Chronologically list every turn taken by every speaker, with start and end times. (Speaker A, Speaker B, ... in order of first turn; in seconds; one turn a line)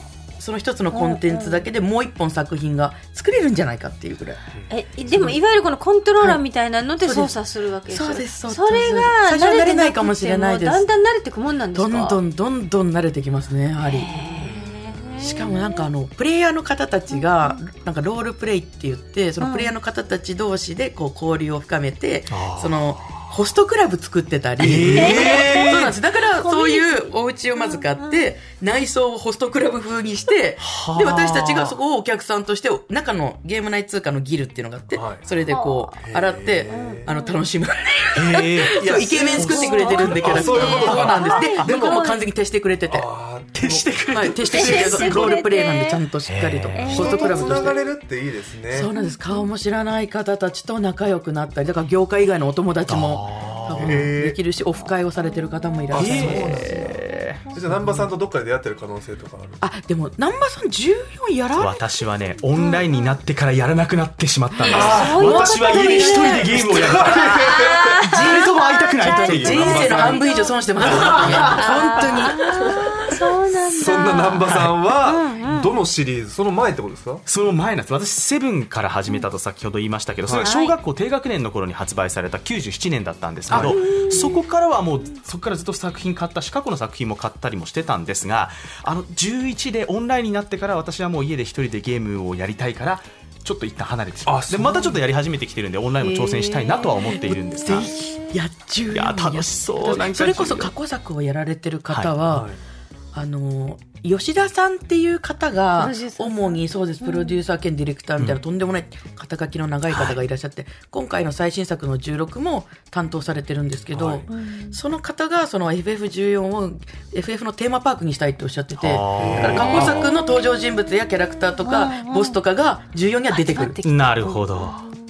Speaker A: 0.4-4.4
Speaker B: 0.9-1.6
Speaker B: 4.7-12.2
Speaker A: 5.1-5.4
Speaker A: 7.0-7.3
Speaker A: 7.9-10.8
Speaker A: 11.8-14.2
Speaker B: 13.8-15.8
Speaker C: 14.4-15.3
Speaker A: 15.2-43.1
Speaker B: 19.4-19.7
Speaker D: 22.3-22.8
Speaker D: 24.6-26.0
Speaker C: 24.8-25.2
Speaker B: 24.9-28.2
Speaker D: 30.6-31.8
Speaker C: 34.9-35.3
Speaker B: 35.5-36.0
Speaker C: 36.0-37.1
Speaker B: 36.7-37.4
Speaker D: 38.1-41.7
Speaker C: 38.8-41.4
Speaker B: 39.8-42.3
Speaker C: 42.9-43.9
Speaker D: 43.5-45.4
Speaker A: 44.1-47.8
Speaker B: 44.5-46.0
Speaker D: 46.3-47.3
Speaker B: 46.8-47.7
Speaker C: 46.9-48.9
Speaker A: 48.7-56.9
Speaker B: 48.9-49.5
Speaker D: 52.9-54.2
Speaker C: 53.7-54.4
Speaker B: 55.2-55.8
Speaker C: 55.9-59.6
Speaker D: 55.9-57.5
Speaker A: 59.6-61.8
Speaker D: 61.6-70.2
Speaker B: 62.5-62.9
Speaker B: 64.6-75.8
Speaker C: 64.7-65.5
Speaker A: 64.8-67.1
Speaker C: 66.6-68.2
Speaker A: 68.1-72.8
Speaker C: 69.4-70.2
Speaker D: 70.8-71.9
Speaker C: 70.9-71.5
Speaker C: 73.6-77.2
Speaker D: 74.5-74.7
Speaker D: 77.3-98.0
Speaker B: 80.4-80.8
Speaker C: 83.5-83.9
Speaker B: 83.6-84.4
Speaker C: 94.3-95.0
Speaker B: 96.0-98.2
Speaker A: 97.6-102.5
Speaker D: 98.9-100.7
Speaker C: 102.3-102.6
Speaker A: 103.1-123.8
Speaker B: 105.8-107.4
Speaker D: 108.2-108.4
Speaker D: 109.9-110.2
Speaker C: 113.9-114.3
Speaker B: 114.3-114.8
Speaker D: 118.7-120.0
Speaker C: 119.2-120.1
Speaker B: 119.8-120.1
Speaker B: 121.6-122.4
Speaker B: 123.3-124.9
Speaker D: 123.8-124.8